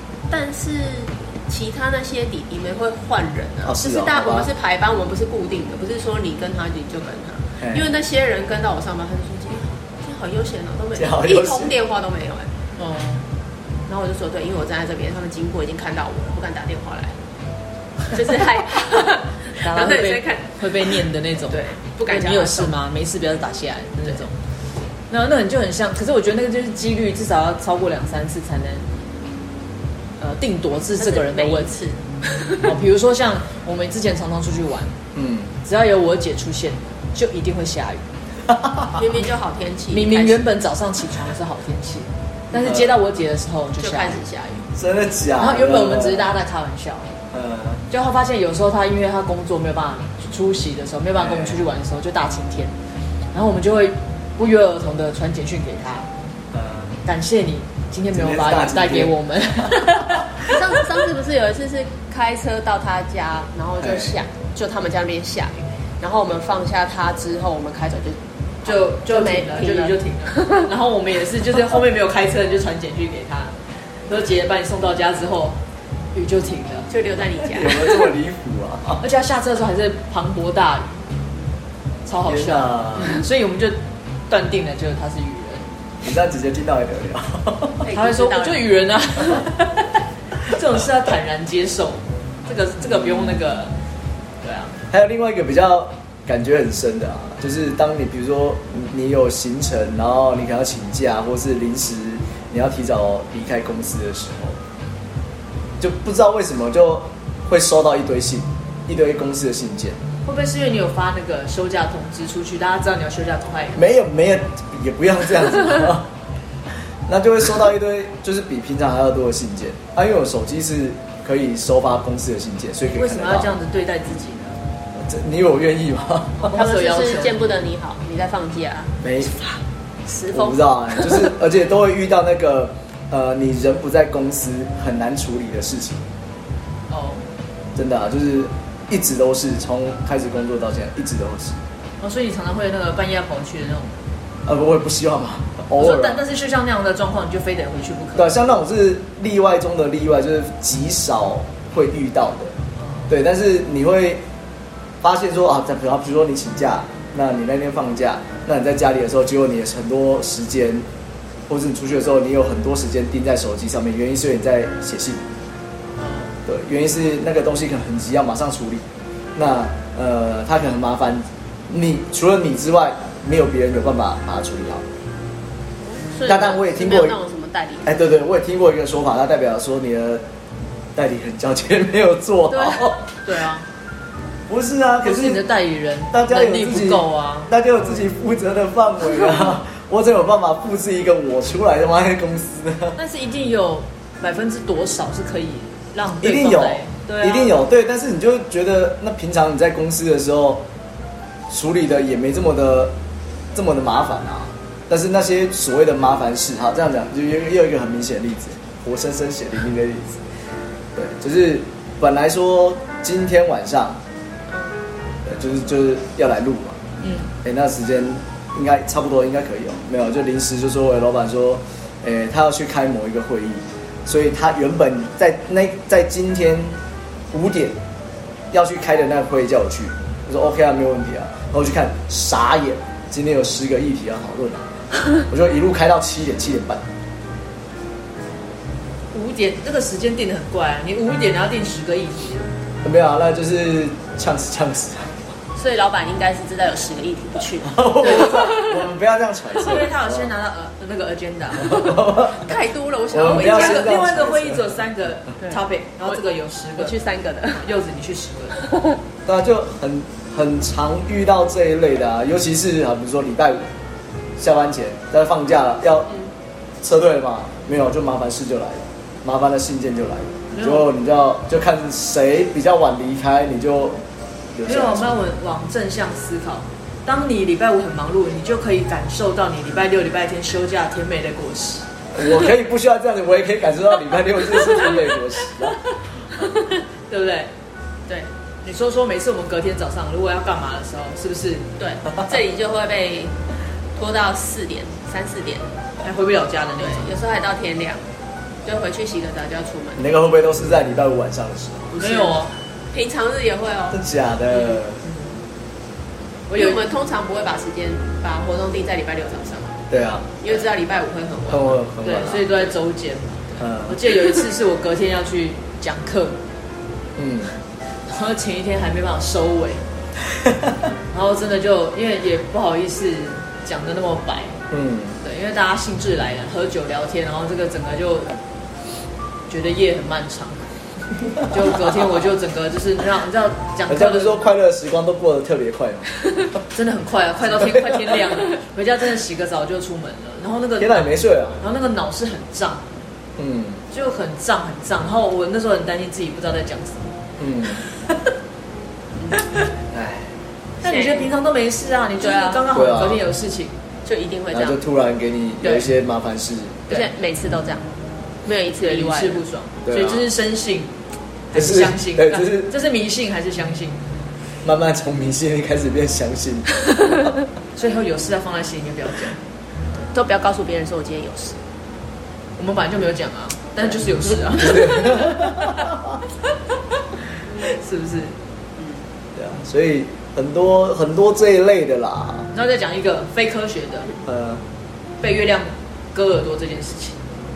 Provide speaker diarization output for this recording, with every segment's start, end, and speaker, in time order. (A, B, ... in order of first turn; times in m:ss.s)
0:00.3-0:12.5 A
0:03.6-0:04.5 B
0:07.6-0:07.9 B
0:11.0-0:11.7 B
0:12.8-0:13.2 C
0:13.9-0:17.2 A
0:18.1-0:21.0 A
0:19.6-0:24.4 C
0:21.5-0:22.7 A
0:25.1-0:28.9 C
0:30.2-0:31.7 C
0:31.0-0:32.7 A
0:32.6-0:35.0 C
0:35.1-0:35.5 B
0:35.6-0:38.1 C
0:38.5-0:39.0 B
0:38.9-0:40.4 A
0:39.9-0:44.2 C
0:42.5-0:42.9 B
0:43.8-0:44.7 A
0:44.8-0:46.3 B
0:45.4-0:47.1 C
0:47.3-0:47.8 B
0:47.9-0:52.8 C
0:51.2-0:51.6 B
0:53.3-0:56.1 C
0:56.5-0:57.0 B
0:57.0-1:00.8 C
0:58.1-0:59.1 B
1:00.5-1:10.6 A
1:03.8-1:04.2 B
1:08.6-1:15.6 C
1:16.1-1:16.9 C
1:16.9-1:18.0 A
1:17.5-1:19.0 B
1:19.0-1:21.0 C
1:22.0-1:25.6 C
1:22.3-1:23.2 B
1:26.0-1:27.8 B
1:27.8-1:28.6 A
1:27.9-1:33.8 C
1:32.8-1:33.4 B
1:34.4-1:34.8 C
1:34.9-1:44.6 B
1:45.8-1:50.0 B
1:50.2-1:53.9 C
1:53.8-1:56.1 B
1:57.1-2:03.5 B
2:02.9-2:04.6 C
2:05.0-2:06.6 B
2:06.4-2:07.5 C
2:06.5-2:09.4 A
2:09.0-2:09.4 B
2:10.1-2:11.3 A
2:10.3-2:16.0 B
2:16.9-2:17.2 C
2:17.8-2:21.6 B
2:22.0-2:24.0 C
2:24.5-2:26.2 B
2:25.8-2:28.4 C
2:28.2-2:32.6 B
2:33.1-2:34.2 B
2:35.0-2:40.9 B
2:41.5-2:45.2 B
2:46.5-2:54.8 B
2:55.8-2:58.0 A
2:56.2-2:57.2 B
2:57.8-3:00.2 B
3:01.0-3:03.0 B
3:02.5-3:03.7 C
3:04.5-3:05.4 B
3:05.0-3:07.5 C
3:06.1-3:13.0 B
3:13.0-3:17.6 C
3:16.2-3:20.6 B
3:21.5-3:22.9 B
3:23.5-3:30.2 B
3:31.0-3:34.0 B
3:35.2-3:36.8 B
3:37.0-3:37.3 C
3:37.4-3:46.8 B
3:47.3-3:47.8 B
3:48.5-3:54.7 B
3:55.3-3:56.8 B
3:59.1-4:02.5 C
4:02.8-4:05.3 B
4:05.6-4:08.8 A
4:07.6-4:10.3 B
4:08.0-4:08.5 C
4:09.6-4:12.2 C
4:11.6-4:12.5 B
4:12.3-4:13.9 A
4:13.1-4:14.7 B
4:13.2-4:16.9 C
4:16.8-4:17.6 A
4:17.6-4:18.6 C
4:18.6-4:18.9 A
4:19.3-4:23.6 B
4:24.4-4:26.1 B
4:26.8-4:34.0 B
4:30.5-4:30.9 C
4:34.6-4:35.1 B
4:34.6-4:41.8 C
4:42.1-4:45.8 B
4:46.4-4:47.5 C
4:48.6-4:51.7 C
4:51.8-4:53.4 A
4:54.0-4:55.7 A
4:56.0-4:57.1 C
4:56.8-4:58.0 A
4:58.6-5:00.1 A
5:00.0-5:01.9 B
5:01.9-5:04.0 A
5:02.0-5:02.5 C
5:03.9-5:05.0 B
5:04.5-5:05.2 C
5:06.5-5:06.8 C
5:06.5-5:09.8 A
5:09.9-5:10.3 B
5:10.4-5:11.8 A
5:11.5-5:12.4 B
5:12.0-5:16.4 C
5:13.6-5:14.0 B
5:17.2-5:17.5 B
5:18.1-5:19.8 C
5:20.4-5:20.7 B
5:21.1-5:24.6 C
5:24.7-5:25.2 B
5:25.2-5:28.4 C
5:29.5-5:30.7 C
5:31.4-5:34.4 C
5:31.6-5:32.1 B
5:33.9-5:36.1 B
5:36.7-5:43.0 C
5:37.5-5:38.2 B
5:40.8-5:41.6 B
5:43.4-5:43.8 B
5:43.9-5:47.1 C
5:47.4-5:47.8 B
5:49.8-5:50.3 B
5:50.8-5:51.3 A
5:50.8-5:53.8 C
5:52.2-5:52.7 A
5:52.7-5:53.2 B
5:54.0-5:54.8 A
5:54.5-5:56.9 B
5:55.6-5:55.9 C
5:56.9-5:57.9 A
5:58.4-5:59.4 A
5:58.8-6:00.9 C
5:59.9-6:00.3 B
6:01.5-6:04.0 C
6:01.5-6:02.7 B
6:04.6-6:07.3 B
6:07.8-6:09.4 C
6:10.1-6:11.6 A
6:12.6-6:15.9 C
6:14.5-6:16.2 B
6:17.6-6:18.4 C
6:19.4-6:22.5 B
6:22.5-6:24.1 C
6:24.2-6:24.6 B
6:25.2-6:27.2 C